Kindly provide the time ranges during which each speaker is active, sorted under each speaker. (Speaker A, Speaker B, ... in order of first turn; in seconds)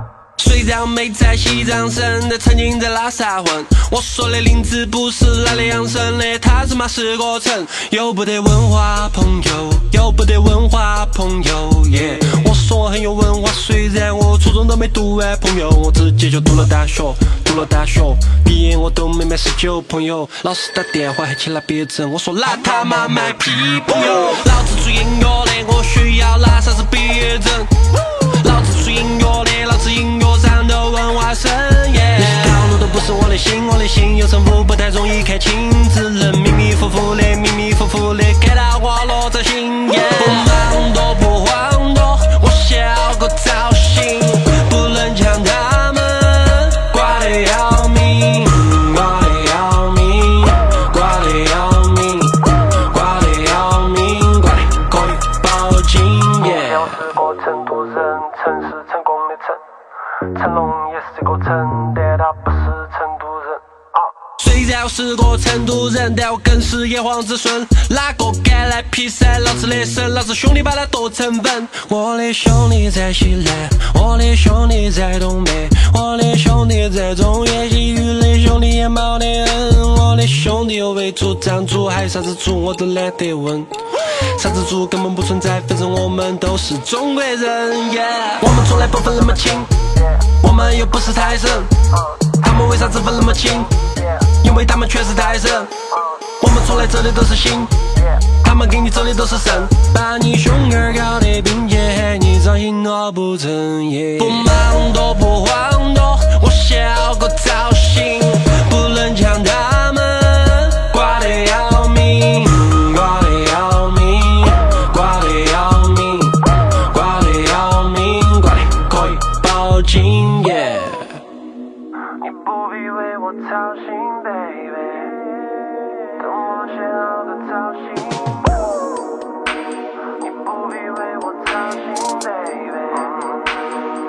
Speaker A: 0.4-59.6, 60.2-121.1, 122.2-125.2, 126.1-128.6, 130.2-133.6